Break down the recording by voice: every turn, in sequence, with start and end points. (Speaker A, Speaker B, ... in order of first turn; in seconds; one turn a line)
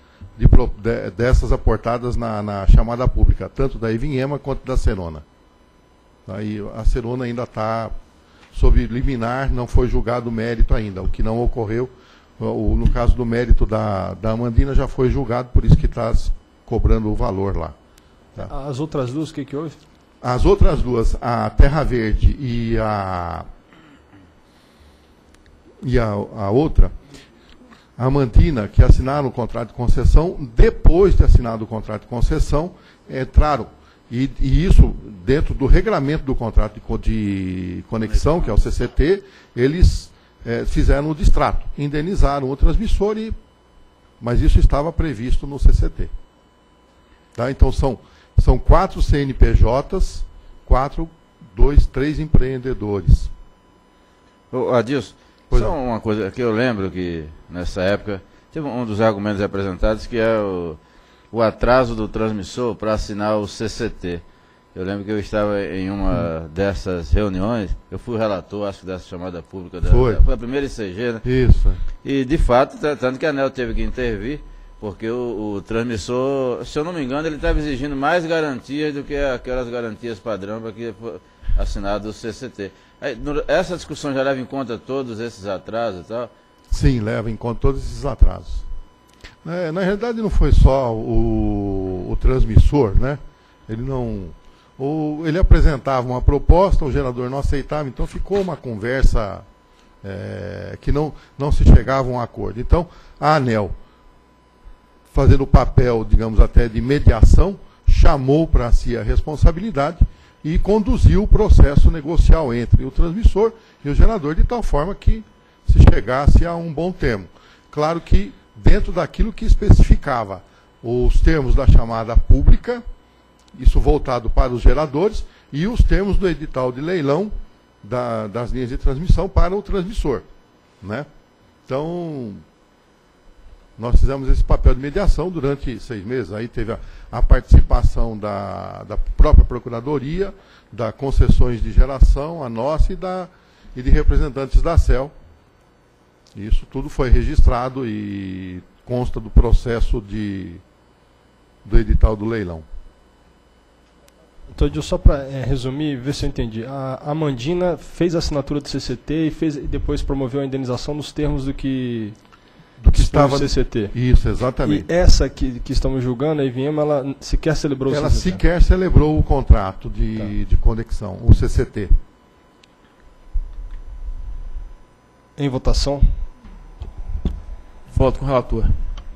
Speaker A: 0.4-5.2
Speaker A: 6.2-7.9
Speaker A: 8.5-17.7
Speaker B: 18.4-19.8
Speaker A: 20.2-23.5
Speaker A: 25.8-26.9
Speaker A: 28.0-43.4
Speaker C: 38.1-38.5
Speaker A: 44.2-46.1
Speaker A: 47.3-53.3
Speaker C: 54.5-60.8
Speaker A: 55.5-55.8
Speaker C: 61.3-64.2
Speaker C: 64.7-71.2
Speaker A: 69.8-70.2
Speaker A: 71.2-71.8
Speaker C: 72.0-86.3
Speaker A: 86.7-88.6
Speaker A: 89.4-99.5
Speaker A: 100.0-103.8
Speaker A: 105.1-122.8
Speaker A: 123.5-130.2
Speaker A: 130.8-131.1
Speaker A: 131.7-132.4
Speaker A: 133.8-145.1
Speaker A: 146.3-150.6
Speaker A: 151.6-152.6
Speaker B: 154.5-162.3
Speaker A: 162.8-164.9
Speaker B: 162.9-163.9
Speaker B: 164.6-168.4
Speaker A: 167.9-171.9
Speaker B: 175.4-176.3